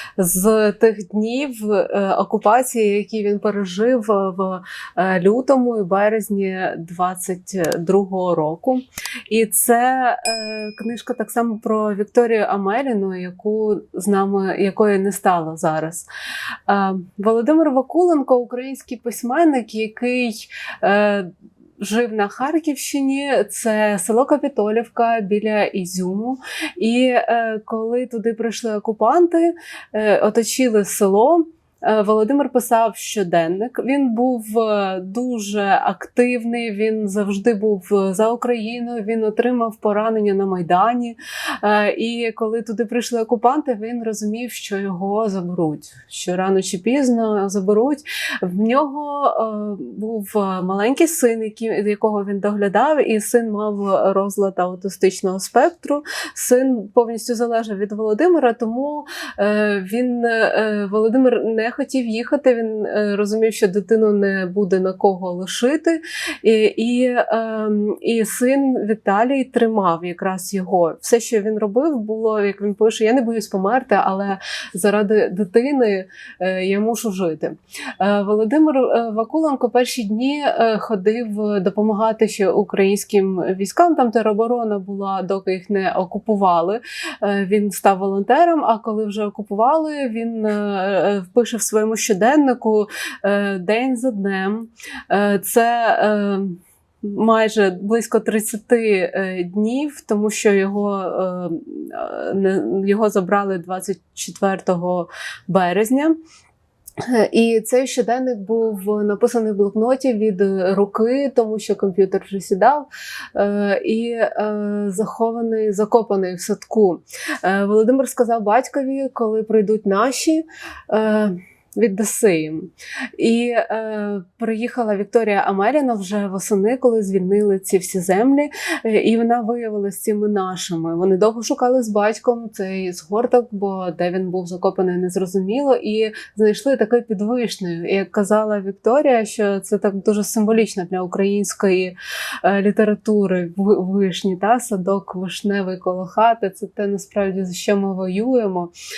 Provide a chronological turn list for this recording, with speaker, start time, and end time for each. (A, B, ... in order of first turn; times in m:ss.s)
0:00.2-0:16.1 A
0:16.7-1:46.2 A
1:47.0-2:28.7 A